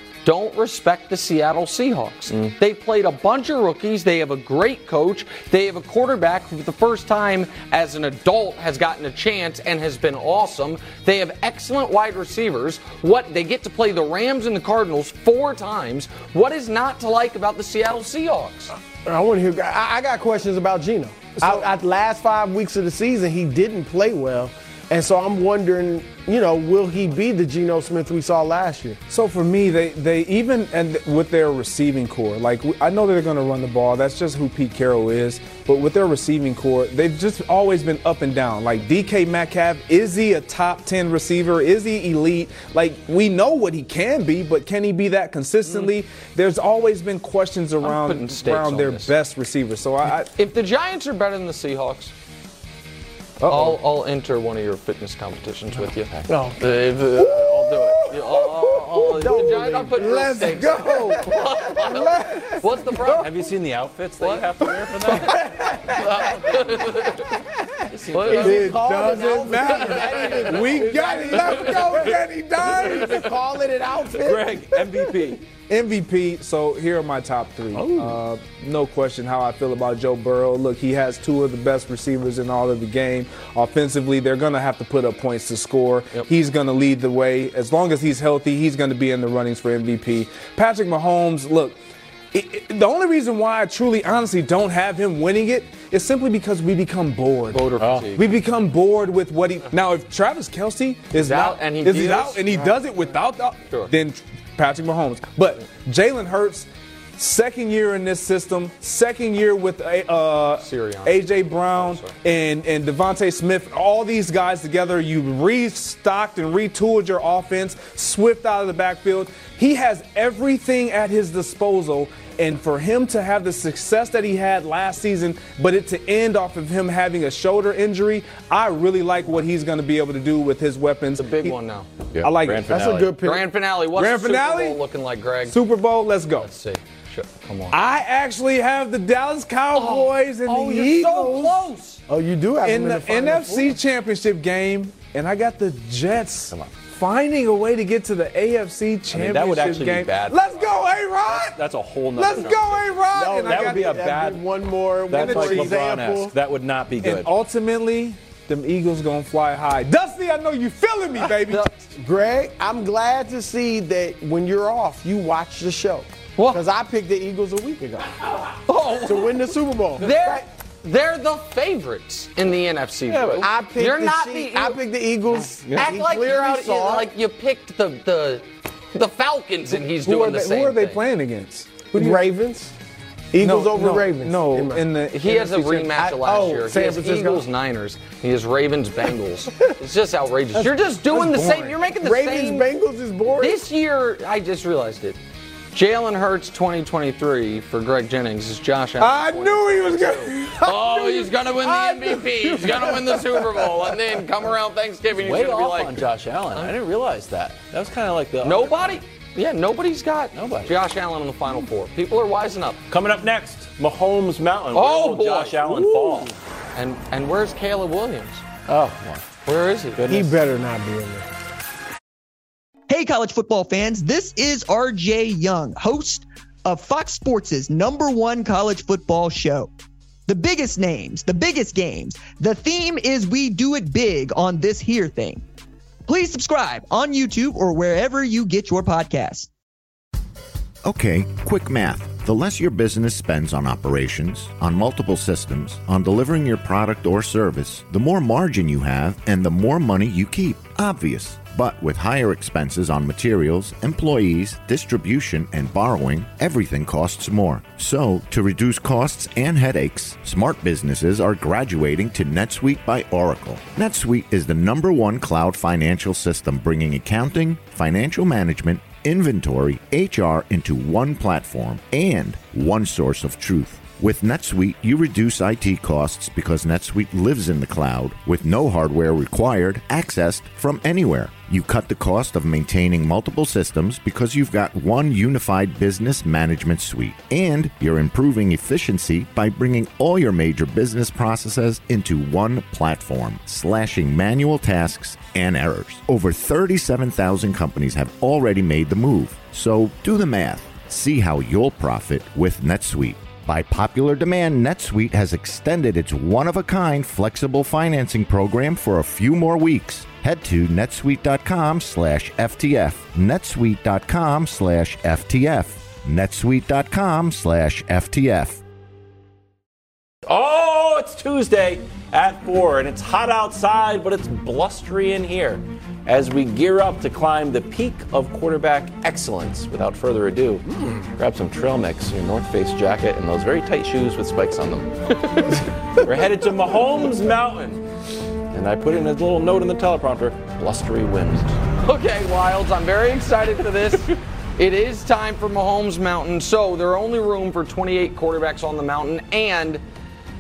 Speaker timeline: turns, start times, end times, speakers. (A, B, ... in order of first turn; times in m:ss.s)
0:00.2-0:18.7 A
0:02.3-0:02.6 B
0:19.0-0:29.0 C
0:21.4-0:21.6 D
0:29.1-0:50.3 D
0:47.8-0:49.1 A
0:50.4-0:52.1 A
0:53.4-0:53.8 D
0:53.5-1:03.3 A
0:56.3-0:56.6 C
0:57.2-0:57.9 C
0:58.8-1:03.2 D
0:58.9-1:01.4 C
1:03.2-1:05.6 B
1:04.2-1:04.5 A
1:05.0-1:07.4 A
1:05.4-1:05.7 C
1:07.9-1:08.8 B
1:08.1-1:08.8 A
1:08.3-1:11.8 C
1:08.3-1:13.3 D
1:09.5-1:12.1 A
1:12.7-1:15.1 C
1:14.1-1:15.4 B
1:15.7-1:31.8 D
1:17.8-1:18.2 C
1:32.3-1:37.6 D
1:37.5-1:38.3 A
1:37.8-1:38.1 B
1:38.2-2:11.6 D
1:41.2-1:42.7 A
1:50.6-1:52.1 A
2:11.2-2:11.9 A
2:12.1-2:13.1 B
2:12.2-2:12.7 D
2:12.7-2:13.5 C
2:13.0-2:15.6 A
2:13.9-2:14.8 D
2:15.5-2:16.5 D
2:16.4-2:17.8 A
2:17.7-2:21.6 D
2:19.8-2:22.0 A
2:22.1-2:23.8 C
2:22.6-2:31.6 D
2:29.1-2:30.8 B
2:31.3-2:34.4 B
2:32.1-2:34.2 D
2:33.1-2:36.3 C
2:35.1-2:37.3 B
2:35.1-2:35.9 D
2:37.0-2:41.7 D
2:42.0-2:48.2 C
2:46.4-2:46.6 A
2:48.7-2:49.4 A
2:49.0-2:50.5 C
2:50.0-2:54.8 A
2:53.1-2:53.4 B
2:53.4-2:57.1 C
2:55.7-2:55.9 B
2:55.8-3:01.0 A
2:59.7-3:02.2 D
3:01.9-3:02.8 C
3:03.3-3:04.8 C
3:03.4-3:05.9 D
3:05.1-3:12.7 A
3:05.9-3:07.5 C
3:10.6-3:11.8 D
3:12.0-3:13.6 C
3:13.4-3:15.2 A
3:15.7-3:26.0 A
3:19.0-3:23.8 D
3:20.7-3:21.1 B
3:25.2-3:29.0 B
3:28.4-3:32.8 A
3:30.3-3:30.8 B
3:32.9-3:36.4 B
3:34.7-3:35.6 A
3:35.7-3:36.3 C
3:36.8-3:38.4 A
3:38.7-3:39.3 B
3:39.5-3:40.0 A
3:40.0-3:40.4 B
3:40.1-3:41.3 C
3:42.9-3:49.7 E
3:50.3-3:55.4 E
3:56.1-3:59.5 E
4:00.8-5:18.6 F
5:20.3-5:37.8 B
5:38.5-5:41.6 B
5:41.8-5:49.8 A